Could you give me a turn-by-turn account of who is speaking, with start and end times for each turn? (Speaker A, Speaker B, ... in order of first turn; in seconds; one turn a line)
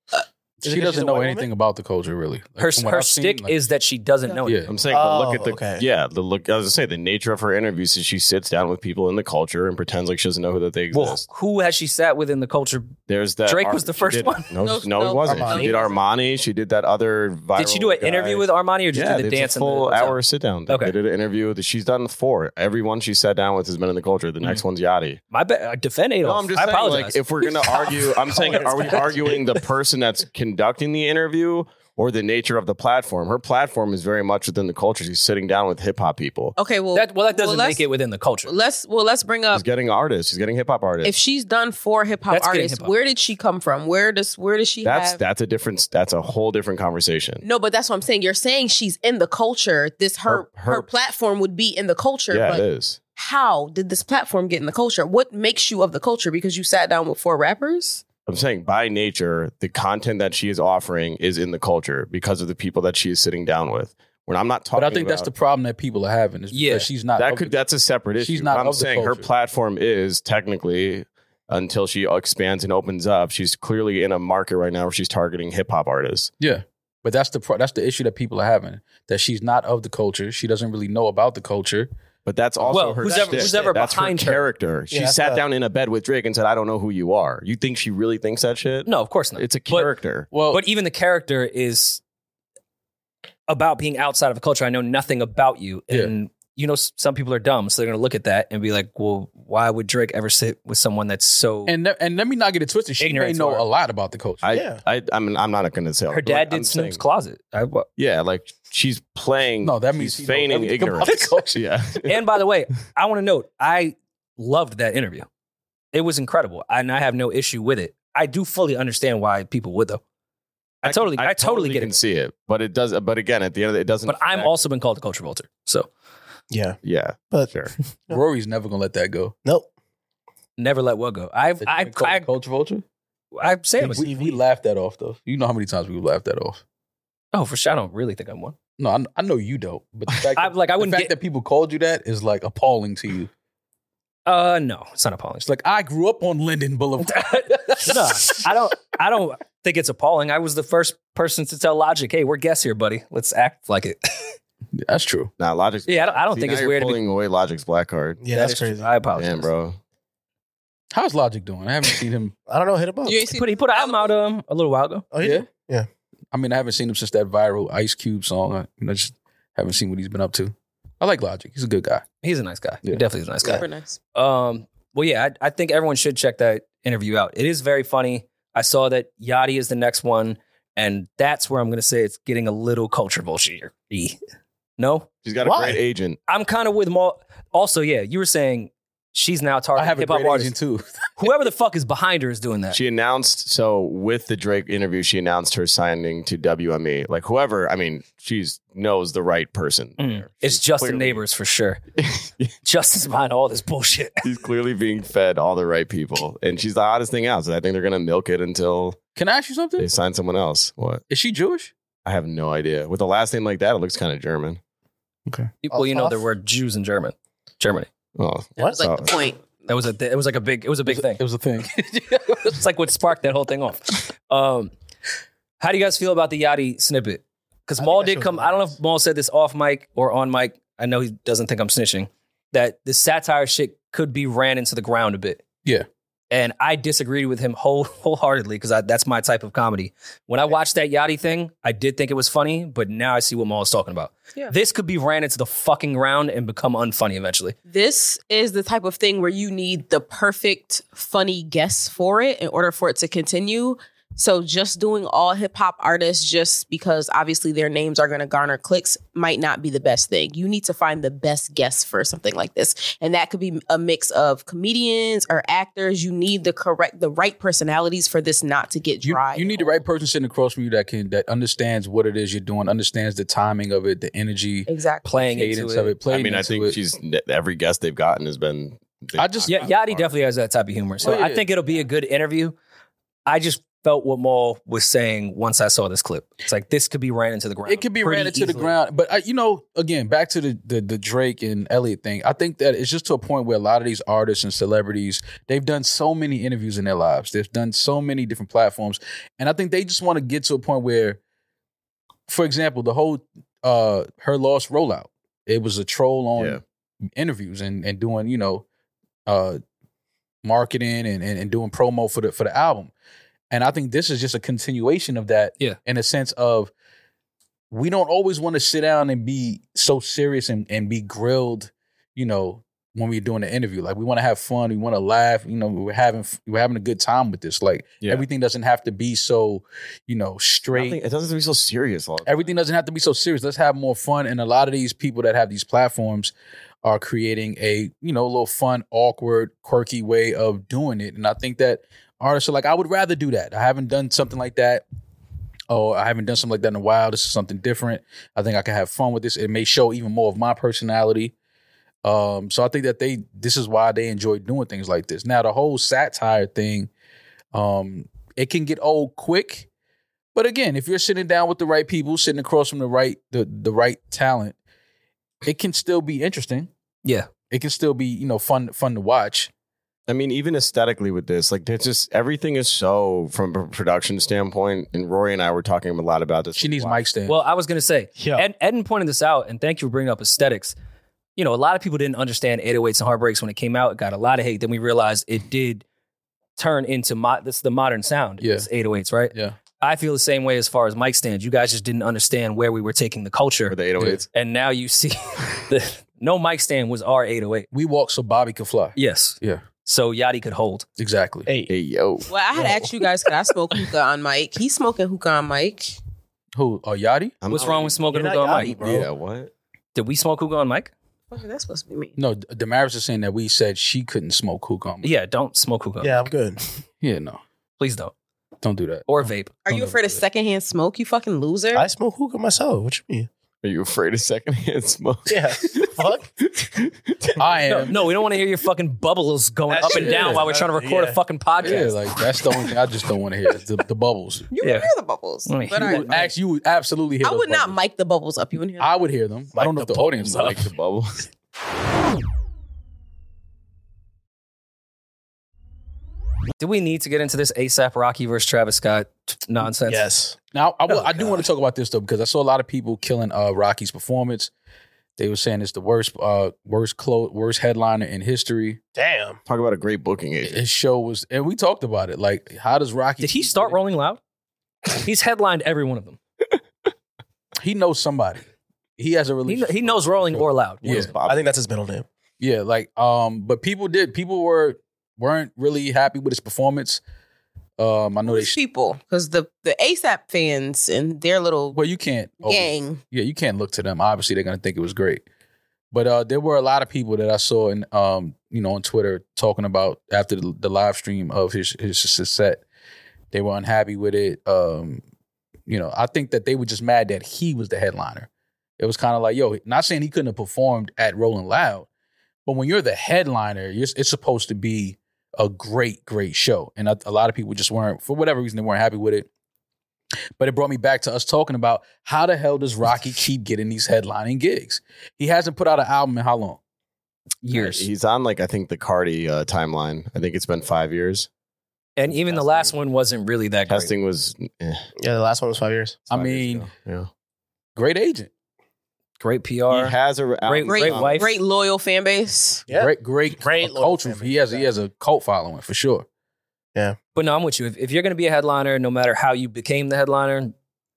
Speaker A: 0.6-1.5
Speaker B: 0.6-3.5
Speaker C: 2.6-4.6
Speaker B: 4.4-4.7
Speaker D: 4.7-11.2
Speaker A: 4.9-5.8
Speaker C: 10.9-12.9
Speaker D: 13.1-25.2
Speaker C: 13.4-14.5
Speaker E: 14.6-16.0
Speaker A: 15.2-15.8
Speaker C: 17.6-20.9
Speaker C: 25.3-29.1
Speaker D: 26.2-36.5
Speaker E: 36.6-37.8
Speaker C: 36.9-38.6
Speaker E: 38.5-39.6
Speaker D: 39.5-41.1
Speaker E: 41.0-45.2
Speaker C: 42.3-42.9
Speaker D: 44.8-47.4
Speaker E: 47.4-52.6
Speaker D: 50.3-50.9
Speaker D: 52.3-53.0
Speaker E: 53.2-58.0
Speaker D: 58.3-65.3
Speaker B: 64.7-67.6
Speaker C: 66.5-66.9
Speaker D: 67.2-76.3
Speaker B: 68.2-69.3
Speaker B: 76.4-81.9
Speaker D: 82.2-90.3
Speaker C: 82.7-84.4
Speaker A: 83.0-83.7
Speaker A: 84.9-85.4
Speaker C: 88.9-92.0
Speaker B: 90.3-90.6
Speaker C: 93.5-101.7
Speaker B: 101.7-104.5
Speaker C: 103.0-103.6
Speaker D: 104.4-107.0
Speaker A: 104.5-104.8
Speaker C: 106.1-107.9
Speaker D: 108.0-112.2
Speaker B: 109.6-111.6
Speaker C: 112.1-115.3
Speaker C: 115.9-120.0
Speaker C: 120.8-121.9
Speaker D: 120.8-124.5
Speaker C: 124.1-125.9
Speaker A: 126.5-126.8
Speaker D: 126.8-127.7
Speaker B: 128.1-129.3
Speaker C: 130.6-132.3
Speaker B: 131.6-132.8
Speaker C: 133.4-134.1
Speaker A: 133.8-134.4
Speaker B: 133.9-136.6
Speaker C: 137.3-138.6
Speaker B: 138.8-143.3
Speaker C: 140.4-141.1
Speaker C: 144.2-145.5
Speaker B: 145.4-148.4
Speaker C: 147.1-154.0
Speaker B: 154.8-155.3
Speaker D: 155.4-158.2
Speaker C: 155.9-157.0
Speaker A: 158.2-158.9
Speaker C: 158.3-159.5
Speaker D: 159.1-159.8
Speaker B: 160.9-162.3
Speaker A: 162.5-163.2
Speaker E: 163.1-164.2
Speaker C: 163.3-165.1
Speaker A: 165.1-165.9
Speaker B: 165.2-165.5
Speaker B: 166.3-172.1
Speaker C: 172.2-184.2
Speaker E: 173.4-174.0
Speaker C: 184.8-185.1
Speaker D: 185.2-186.2
Speaker A: 185.4-185.8
Speaker C: 186.3-190.6
Speaker B: 189.8-191.2
Speaker C: 191.2-192.8
Speaker D: 192.7-201.2
Speaker C: 200.0-201.8
Speaker D: 202.0-202.5
Speaker C: 202.6-204.2
Speaker D: 204.2-209.0
Speaker B: 209.2-209.9
Speaker D: 209.8-211.0
Speaker B: 211.1-211.7
Speaker D: 212.1-214.6
Speaker A: 215.3-216.3
Speaker C: 215.6-217.9
Speaker D: 218.2-219.1
Speaker E: 218.7-219.5
Speaker C: 219.7-221.2
Speaker B: 220.9-222.6
Speaker C: 222.5-224.7
Speaker C: 225.6-235.4
Speaker A: 227.8-228.6
Speaker C: 236.3-247.6
Speaker E: 247.7-269.8
Speaker B: 269.0-276.8
Speaker E: 274.7-275.1
Speaker C: 275.0-275.9
Speaker D: 276.1-280.1
Speaker B: 279.1-279.7
Speaker C: 279.5-282.6
Speaker B: 281.0-281.4
Speaker C: 283.2-288.7
Speaker B: 287.7-301.2
Speaker B: 302.3-306.6
Speaker D: 306.4-306.6
Speaker B: 307.1-308.6
Speaker B: 309.3-309.6
Speaker B: 310.4-312.9
Speaker B: 313.5-316.7
Speaker B: 317.7-331.0
Speaker D: 330.7-332.5
Speaker B: 332.2-336.3
Speaker B: 336.8-344.8
Speaker B: 345.7-351.3
Speaker B: 352.0-356.9
Speaker B: 357.5-359.7
Speaker B: 360.4-364.6
Speaker B: 365.4-366.7
Speaker C: 367.0-367.3
Speaker B: 367.5-369.5
Speaker D: 370.1-377.0
Speaker B: 376.6-377.4
Speaker C: 377.3-380.7
Speaker A: 378.1-378.4
Speaker C: 381.4-385.8
Speaker C: 386.6-393.8
Speaker B: 388.4-388.7
Speaker D: 393.7-394.3
Speaker C: 394.3-397.7
Speaker B: 397.7-399.6
Speaker C: 398.9-400.9
Speaker B: 401.0-401.5
Speaker A: 401.4-401.7
Speaker D: 401.7-402.3
Speaker E: 402.3-405.9
Speaker B: 406.6-407.4
Speaker D: 407.4-408.1
Speaker C: 407.5-408.8
Speaker A: 407.6-409.1
Speaker D: 408.8-409.5
Speaker C: 409.9-410.9
Speaker E: 411.3-412.1
Speaker B: 412.1-415.1
Speaker C: 415.0-416.2
Speaker A: 416.0-416.6
Speaker B: 417.0-417.4
Speaker C: 417.8-418.1
Speaker B: 418.6-419.1
Speaker C: 419.1-419.5
Speaker B: 419.6-420.2
Speaker E: 419.6-421.9
Speaker A: 421.7-423.3
Speaker D: 423.6-427.4
Speaker A: 425.3-426.3
Speaker B: 427.4-427.9
Speaker C: 427.7-432.1
Speaker A: 429.7-431.2
Speaker B: 429.9-430.5
Speaker B: 431.6-434.5
Speaker E: 434.5-436.3
Speaker C: 434.6-434.9
Speaker C: 435.4-436.3
Speaker B: 435.9-437.8
Speaker E: 437.2-438.9
Speaker B: 438.8-440.7
Speaker A: 439.5-440.6
Speaker D: 440.3-441.3
Speaker C: 446.6-450.1
Speaker A: 449.8-450.4
Speaker B: 450.5-454.5
Speaker A: 450.9-451.4
Speaker B: 455.2-458.8
Speaker A: 458.9-459.4
Speaker D: 459.4-460.6
Speaker B: 460.4-463.8
Speaker C: 463.2-464.2
Speaker C: 464.9-466.2
Speaker B: 467.6-468.4
Speaker B: 469.0-471.1
Speaker C: 469.5-471.1
Speaker D: 470.8-471.5
Speaker A: 471.2-472.1
Speaker B: 472.4-477.0
Speaker B: 477.8-478.6
Speaker E: 478.2-481.8
Speaker B: 481.7-485.2
Speaker E: 482.4-483.0
Speaker B: 485.9-492.6
Speaker B: 493.3-495.0
Speaker B: 495.7-498.3
Speaker B: 498.8-501.9
Speaker B: 502.4-509.3
Speaker B: 510.4-516.6
Speaker C: 517.4-517.9
Speaker D: 517.5-521.3
Speaker C: 522.0-523.9
Speaker D: 522.1-522.7
Speaker D: 523.7-524.9
Speaker A: 525.0-526.0
Speaker D: 526.1-527.1
Speaker B: 526.1-526.7
Speaker B: 527.8-528.3
Speaker C: 529.2-531.4
Speaker D: 529.7-531.3
Speaker E: 530.6-532.6
Speaker A: 532.7-534.7
Speaker B: 532.7-536.1
Speaker C: 537.1-540.5